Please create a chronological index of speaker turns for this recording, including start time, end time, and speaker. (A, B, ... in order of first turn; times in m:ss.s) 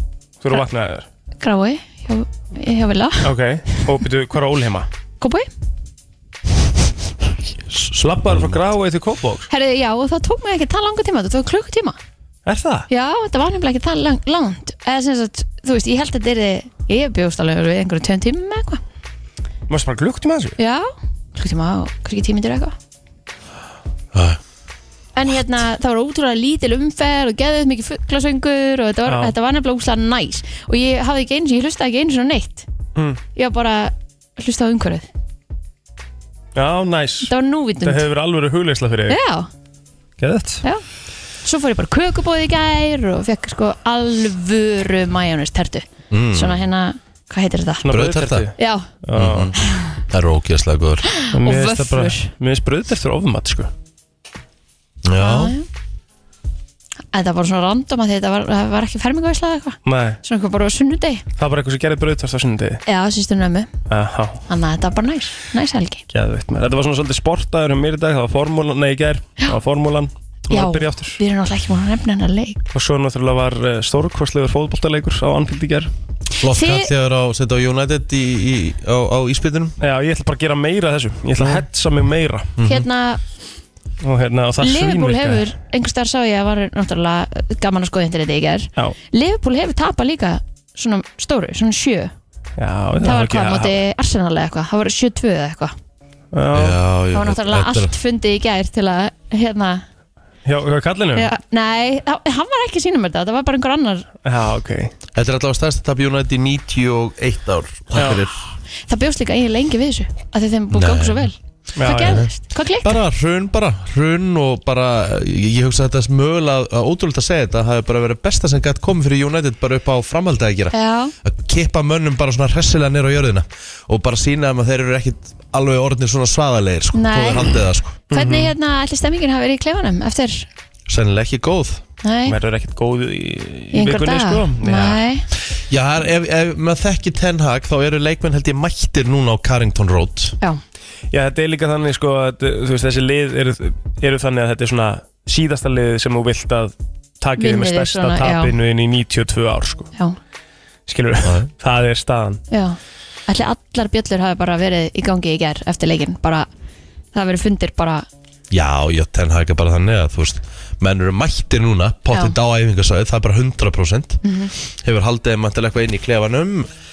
0:00.4-0:01.1 A
0:01.4-0:03.3 B
0:03.2-0:04.9 A
0:05.2-0:05.5 B
0:07.7-0:08.6 C
0:07.9-0:09.5 A
0:09.5-0:12.0 B
0:12.5-0:12.9 A
0:12.9-0:18.8 B
0:19.7-0:20.6 A
0:20.6-0:22.8 B
0:24.1-0:24.4 C
0:25.2-0:32.7 B
0:29.1-0:29.3 A
0:33.0-0:33.2 A
0:33.4-0:35.1 B
0:36.6-0:39.2 A
0:37.2-0:38.1 B
0:39.1-0:39.5 B
0:40.2-0:40.6 A
0:41.4-0:47.9 B
0:46.1-0:46.6 C
0:47.8-0:49.5 A
0:47.9-0:48.5 C
0:48.6-0:48.9 B
0:49.1-0:49.6 C
0:49.7-0:50.0 B
0:50.1-0:51.1 C
0:51.1-0:52.3 B
0:51.3-0:53.7 A
0:55.0-0:55.5 C
0:55.2-0:55.7 B
0:57.1-1:01.2 B
0:59.9-1:00.2 A
1:01.4-1:02.8 A
1:02.9-1:03.7 B
1:03.9-1:04.4 A
1:04.5-1:06.0 B
1:06.1-1:11.2 A
1:10.5-1:12.6 B
1:12.7-1:15.9 A
1:16.4-1:19.8 C
1:16.5-1:16.9 B
1:19.8-1:22.5 A
1:21.4-1:21.6 C
1:22.6-1:22.9 C
1:22.6-1:23.2 B
1:24.0-1:25.4 A
1:24.6-1:32.1 B
1:32.6-1:33.8 A
1:33.0-1:35.8 B
1:36.3-1:36.8 A
1:36.5-1:38.0 C
1:37.1-1:39.8 B
1:40.4-1:41.3 A
1:41.2-1:44.1 B
1:44.2-1:44.9 A
1:45.2-1:48.4 C
1:48.0-1:48.2 A
1:48.9-1:53.0 B
1:50.7-1:51.3 C
1:51.8-1:52.3 A
1:52.0-1:52.3 C
1:52.8-2:08.0 C
2:00.7-2:01.2 B
2:06.9-2:07.6 B
2:08.1-2:10.5 B
2:08.1-2:08.5 A
2:10.9-2:11.8 C
2:12.0-2:12.4 B
2:12.3-2:15.0 A
2:13.7-2:15.3 B
2:15.7-2:20.4 C
2:21.1-2:29.9 A
2:27.4-2:28.5 B
2:30.9-2:32.4 A
2:32.5-2:36.5 B
2:37.1-2:38.1 B
2:38.5-2:46.7 C
2:44.2-2:44.5 B